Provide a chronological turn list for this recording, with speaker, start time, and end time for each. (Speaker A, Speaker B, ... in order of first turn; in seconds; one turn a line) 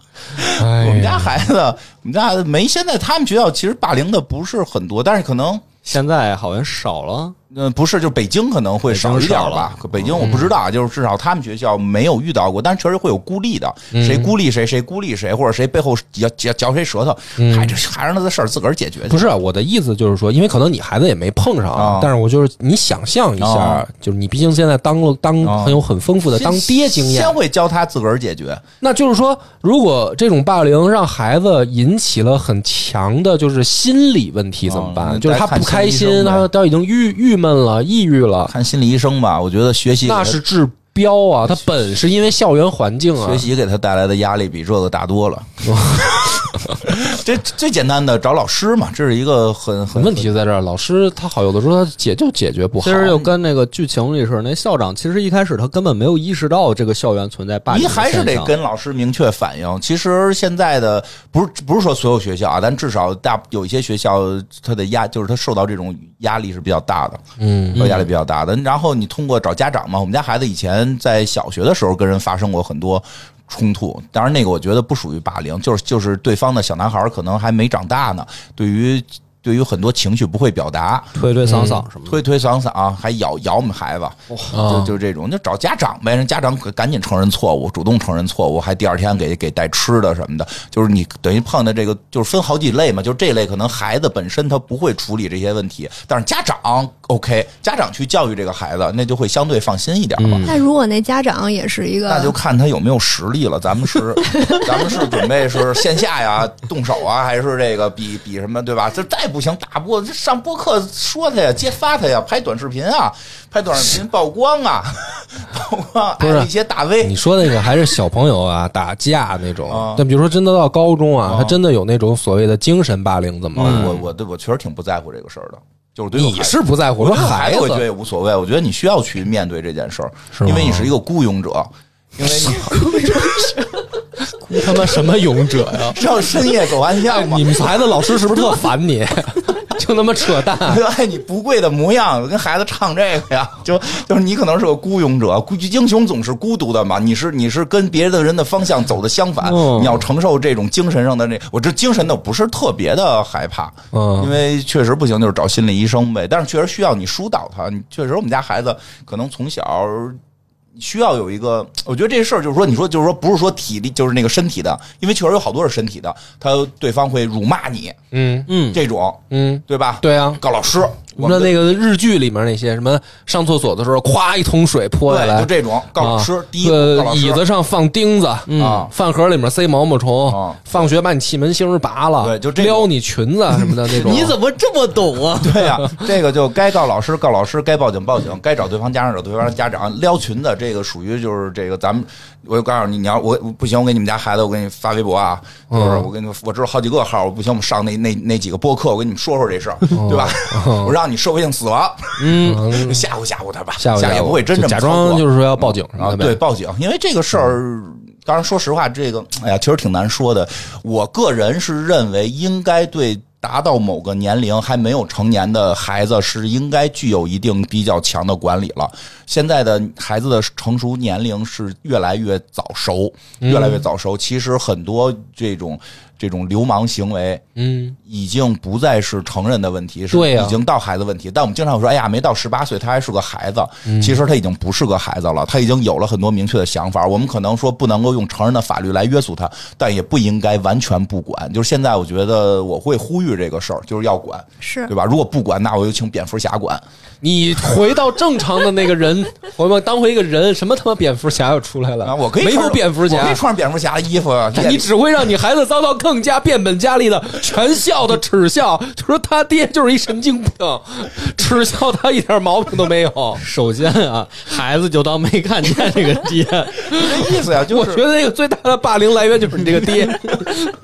Speaker A: 0.3-5.7
Speaker B: 0.6-1.4
Speaker C: 5.8-7.4
Speaker A: 7.5-19.3
Speaker C: 8.9-10.4
Speaker B: 10.2-10.5
Speaker B: 13.9-14.3
Speaker B: 17.4-17.8
Speaker B: 19.1-27.4
Speaker A: 21.7-22.1
Speaker A: 23.4-23.9
Speaker A: 25.4-28.6
Speaker B: 28.8-38.5
Speaker A: 34.7-36.5
Speaker A: 38.5-40.4
Speaker B: 40.0-43.5
Speaker A: 43.2-50.3
Speaker B: 45.7-46.7
Speaker B: 49.9-53.3
Speaker C: 52.8-58.5
Speaker A: 57.7-67.2
Speaker B: 67.4-67.9
Speaker C: 67.7-68.0
Speaker A: 67.8-81.1
Speaker C: 81.2-82.2
Speaker B: 81.5-81.8
Speaker A: 82.1-100.5
Speaker B: 84.5-85.0
Speaker C: 100.2-100.5
Speaker D: 100.5-102.3
Speaker A: 102.1-117.2
Speaker B: 116.2-116.5
Speaker B: 117.0-124.0
Speaker A: 119.7-120.0
Speaker A: 121.2-121.6
Speaker A: 123.5-133.6
Speaker C: 123.6-124.0
Speaker B: 126.2-127.8
Speaker B: 130.3-130.9
Speaker B: 132.5-132.8
Speaker B: 134.3-136.0
Speaker A: 135.8-138.6
Speaker B: 137.0-140.8
Speaker A: 140.4-160.2
Speaker C: 149.4-150.0
Speaker B: 153.9-154.3
Speaker A: 160.8-168.0
Speaker B: 168.1-168.5
Speaker C: 168.5-168.8
Speaker A: 168.7-171.6
Speaker B: 169.3-170.4
Speaker B: 171.1-184.4
Speaker A: 175.1-177.4
Speaker C: 178.5-178.9
Speaker A: 178.6-178.9
Speaker A: 180.2-180.6
Speaker A: 182.2-182.9
Speaker C: 183.7-185.9
Speaker A: 183.8-184.4
Speaker A: 185.4-227.4
Speaker B: 195.7-196.1
Speaker B: 199.9-201.0
Speaker C: 202.2-202.6
Speaker B: 202.3-203.1
Speaker B: 203.8-206.4
Speaker B: 223.4-223.8
Speaker B: 227.6-228.0
Speaker A: 228.1-246.8
Speaker B: 230.1-230.6
Speaker B: 233.9-234.2
Speaker D: 244.6-244.9
Speaker B: 247.2-253.4
Speaker A: 252.0-254.9
Speaker B: 254.5-263.4
Speaker C: 263.4-267.2
Speaker A: 266.9-268.0
Speaker B: 267.7-270.7